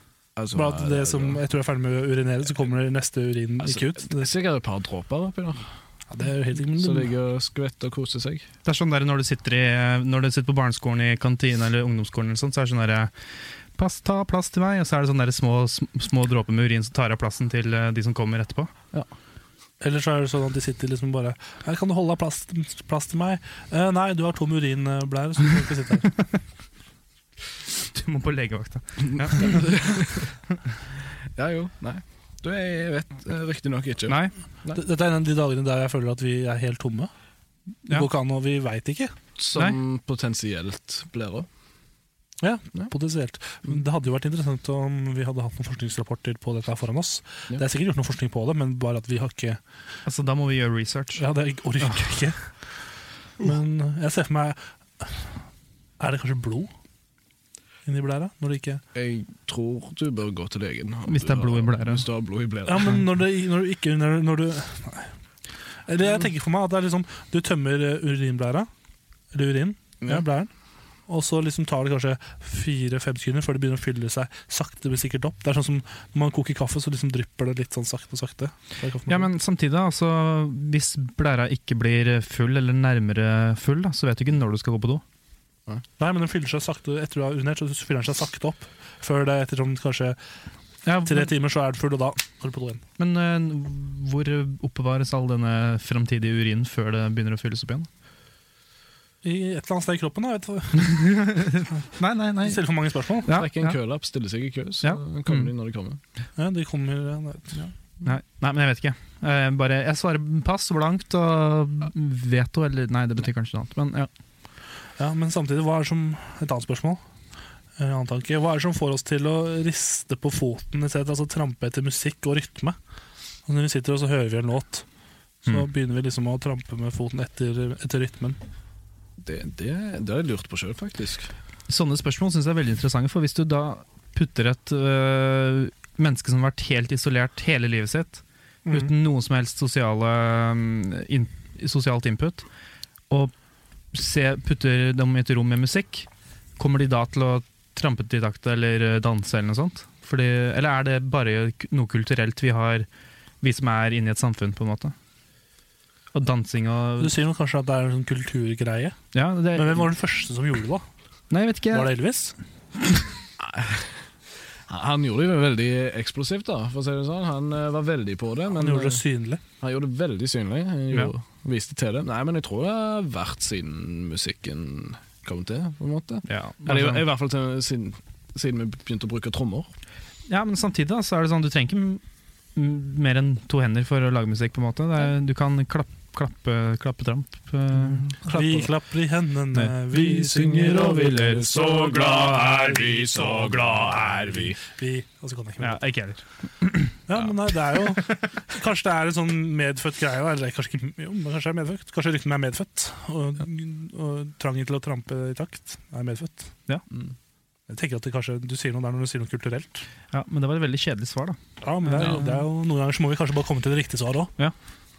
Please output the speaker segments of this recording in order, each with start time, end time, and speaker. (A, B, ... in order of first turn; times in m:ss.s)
0:00.4-0:01.4 A
0:00.5-0:04.3 B
0:03.6-0:05.7 A
0:06.1-0:07.1 B
0:06.8-0:08.4 A
0:08.6-0:13.1 C
0:13.8-0:18.7 C
0:19.8-0:26.2 B
0:27.9-0:30.0 C
0:29.1-0:30.3 A
0:31.3-0:34.8 A
0:34.1-0:34.3 C
0:34.7-0:37.1 B
0:37.9-0:39.1 B
0:39.4-0:41.5 A
0:42.4-0:49.6 B
0:50.0-0:51.2 C
0:51.2-0:52.5 B
0:53.4-0:55.4 B
0:56.0-0:56.7 B
0:57.8-0:58.8 B
0:58.9-1:03.0 A
1:01.0-1:02.0 C
1:02.6-1:05.1 B
1:05.9-1:08.7 B
1:09.3-1:10.5 B
1:11.1-1:19.3 B
1:19.1-1:25.0 C
1:26.0-1:30.2 B
1:30.9-1:31.2 C
1:30.9-1:32.8 B
1:33.0-1:37.9 C
1:39.2-1:41.3 B
1:40.8-1:42.6 C
1:42.4-1:43.3 B
1:43.2-1:43.8 C
1:43.3-1:46.0 A
1:44.8-1:45.5 C
1:46.4-1:47.6 B
1:48.0-1:54.1 C
1:55.0-1:57.0 B
1:57.8-2:02.8 B
2:03.4-2:04.8 B
2:05.4-2:08.4 B
2:09.2-2:11.3 A
2:11.7-2:22.4 C
2:18.6-2:18.9 B
2:23.9-2:32.9 C
2:33.4-2:34.9 C
2:36.1-2:37.1 C
2:37.0-2:39.0 B
2:39.1-2:39.9 C
2:39.5-2:40.8 B
2:41.3-2:41.9 C
2:41.7-2:42.3 B
2:43.4-2:44.0 A
2:44.7-2:49.0 A
2:48.5-2:49.4 B
2:49.6-2:59.7 A
2:56.3-2:57.0 C
3:00.3-3:02.0 C
3:02.5-3:08.4 C
3:08.2-3:11.0 B
3:09.9-3:14.6 A
3:14.6-3:15.8 B
3:15.6-3:17.0 C
3:17.1-3:26.5 B
3:27.7-3:29.8 B
3:30.1-3:32.3 C
3:31.6-3:34.3 B